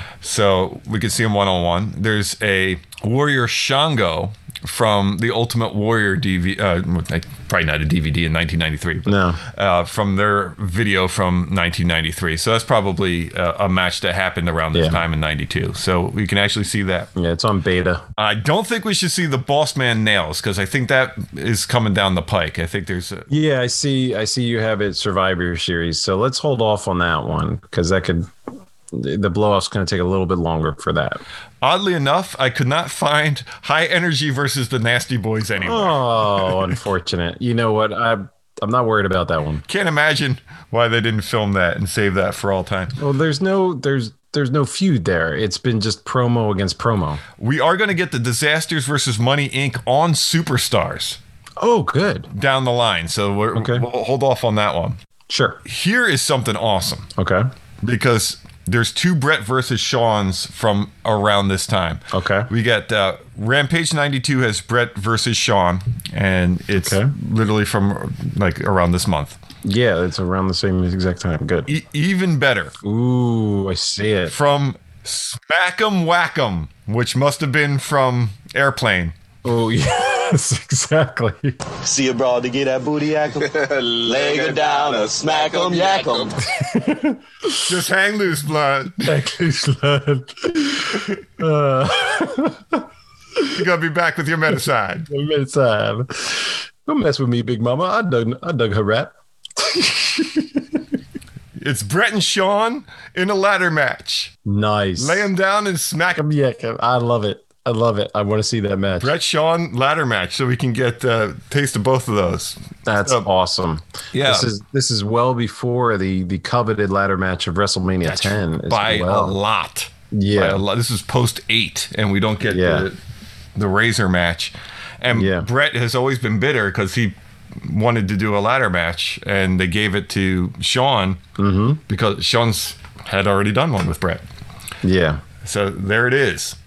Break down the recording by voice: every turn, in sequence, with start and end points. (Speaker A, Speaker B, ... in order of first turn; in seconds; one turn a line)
Speaker A: 0.2-17.1
Speaker B: 9.1-9.4
Speaker B: 14.7-15.0
Speaker B: 17.1-18.1
Speaker A: 18.2-23.3
Speaker B: 23.3-28.3
Speaker B: 28.9-31.2
Speaker A: 31.6-36.7
Speaker B: 35.6-39.6
Speaker A: 39.7-43.0
Speaker B: 43.0-47.2
Speaker A: 47.4-51.2
Speaker B: 51.6-52.3
Speaker A: 52.3-55.0
Speaker B: 53.5-53.9
Speaker B: 55.3-55.6
Speaker A: 55.6-57.1
Speaker B: 57.2-57.5
Speaker A: 57.8-69.4
Speaker B: 62.1-62.5
Speaker B: 66.8-67.1
Speaker B: 69.6-71.7
Speaker A: 71.7-72.7
Speaker B: 72.8-74.3
Speaker A: 74.3-79.1
Speaker B: 79.5-81.6
Speaker C: 81.8-86.5
Speaker B: 86.5-87.7
Speaker A: 87.7-89.2
Speaker B: 89.0-92.8
Speaker B: 93.4-93.6
Speaker A: 93.5-95.1
Speaker B: 95.1-100.8
Speaker A: 101.6-104.3
Speaker B: 104.5-105.3
Speaker A: 105.0-106.2
Speaker B: 106.1-109.1
Speaker A: 109.0-113.3
Speaker B: 112.8-119.4
Speaker A: 114.1-114.5
Speaker A: 118.0-123.0
Speaker B: 120.1-120.6
Speaker B: 122.4-122.9
Speaker A: 123.6-131.2
Speaker B: 125.1-125.5
Speaker B: 131.4-131.8
Speaker A: 131.9-134.2
Speaker B: 134.8-135.2
Speaker A: 135.4-136.6